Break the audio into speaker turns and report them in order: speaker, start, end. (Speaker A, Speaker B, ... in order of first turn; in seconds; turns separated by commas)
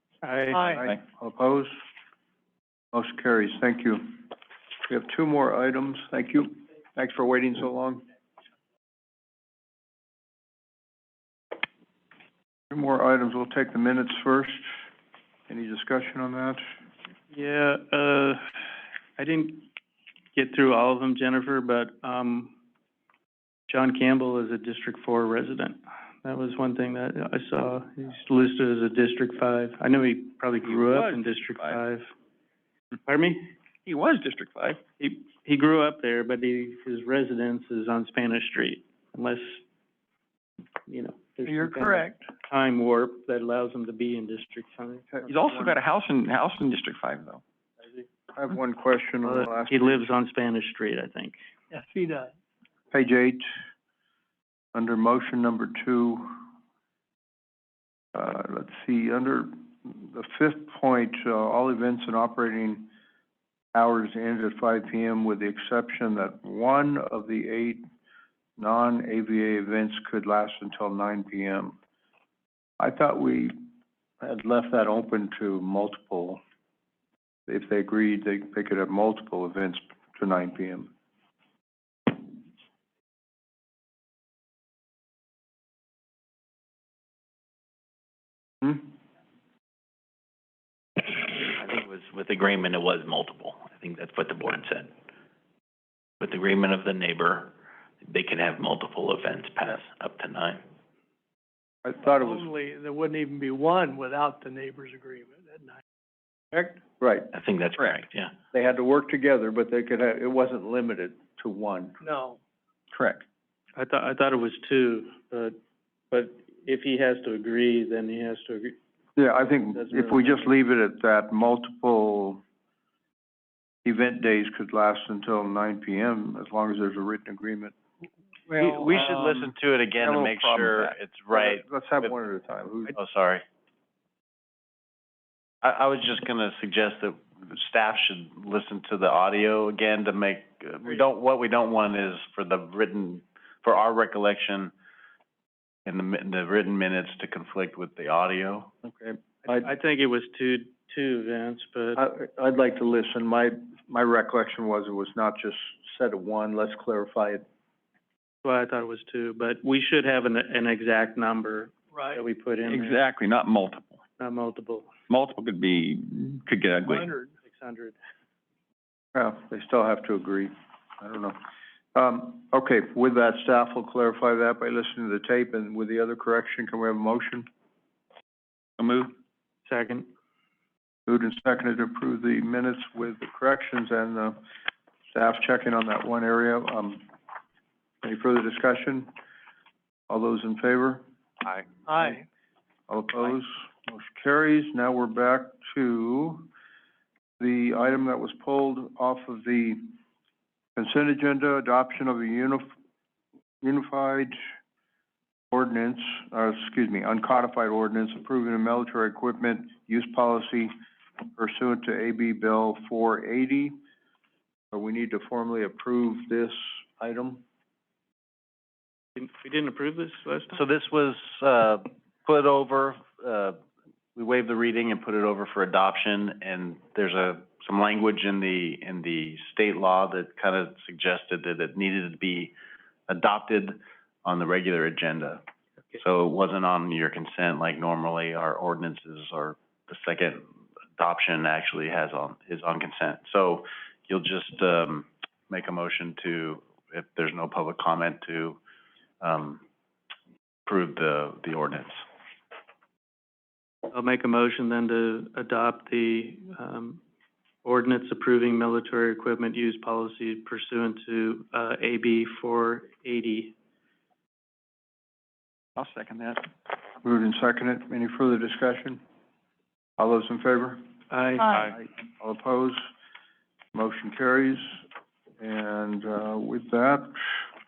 Speaker A: 0.2-0.7, Speaker B: 0.5-0.8, Speaker C: 0.7-1.8, Speaker C: 2.9-4.2, Speaker C: 4.9-8.0, Speaker C: 12.7-14.7, Speaker C: 15.5-16.6, Speaker A: 17.3-18.4, Speaker A: 19.2-19.7, Speaker A: 20.3-22.5, Speaker A: 23.7-32.1, Speaker D: 30.6-31.8, Speaker A: 33.0-33.5, Speaker D: 33.9-34.8, Speaker A: 35.0-39.6, Speaker A: 40.9-45.1, Speaker B: 41.5-42.1, Speaker C: 45.1-45.8, Speaker D: 45.2-47.4, Speaker C: 48.3-50.1, Speaker A: 49.2-51.4, Speaker B: 51.7-52.3, Speaker C: 52.9-53.4, Speaker C: 54.7-56.4, Speaker C: 58.1-62.9, Speaker C: 63.7-67.8, Speaker C: 68.6-71.8, Speaker C: 72.8-73.5, Speaker C: 74.2-76.4, Speaker C: 77.5-80.9, Speaker E: 91.5-94.9, Speaker E: 96.2-97.5, Speaker E: 98.0-100.6, Speaker C: 101.8-102.5, Speaker B: 102.0-105.8, Speaker C: 106.5-107.3, Speaker E: 107.3-108.3, Speaker D: 107.8-108.0, Speaker C: 108.5-112.0, Speaker B: 112.0-112.4, Speaker D: 112.9-113.2, Speaker A: 113.8-115.5, Speaker A: 116.1-118.8, Speaker C: 119.2-122.4, Speaker A: 119.4-120.5, Speaker C: 123.8-127.8, Speaker C: 128.5-129.4, Speaker F: 128.6-132.1, Speaker D: 130.0-130.9, Speaker C: 131.3-132.9, Speaker F: 132.9-133.4, Speaker F: 135.6-144.7, Speaker F: 145.8-148.7, Speaker C: 148.8-149.7, Speaker A: 149.5-152.0, Speaker C: 151.9-157.4, Speaker A: 158.4-163.0, Speaker B: 161.9-162.2, Speaker D: 162.6-164.0, Speaker A: 164.2-164.9, Speaker D: 165.1-167.1, Speaker B: 166.8-167.3, Speaker A: 167.4-168.0, Speaker C: 169.1-171.4, Speaker C: 171.9-177.5, Speaker D: 178.8-179.1, Speaker A: 179.7-180.1, Speaker C: 181.1-184.4, Speaker C: 185.1-187.0, Speaker C: 188.0-189.1, Speaker C: 190.1-191.0, Speaker B: 191.9-192.2, Speaker C: 192.9-196.5, Speaker C: 197.4-199.8, Speaker C: 200.8-202.7, Speaker C: 203.6-204.3, Speaker C: 205.5-210.7, Speaker C: 211.3-213.7, Speaker C: 214.7-217.4, Speaker A: 219.2-220.6, Speaker F: 220.5-223.6, Speaker F: 224.1-232.5, Speaker F: 233.1-235.4, Speaker F: 236.0-240.4, Speaker F: 241.0-248.6, Speaker F: 249.2-249.6, Speaker F: 250.7-252.0, Speaker A: 253.9-257.0, Speaker A: 257.6-263.5, Speaker D: 265.8-266.4, Speaker C: 267.0-269.0, Speaker C: 270.0-270.8, Speaker A: 271.1-271.6, Speaker C: 271.6-272.8, Speaker C: 273.7-274.7, Speaker C: 275.4-277.4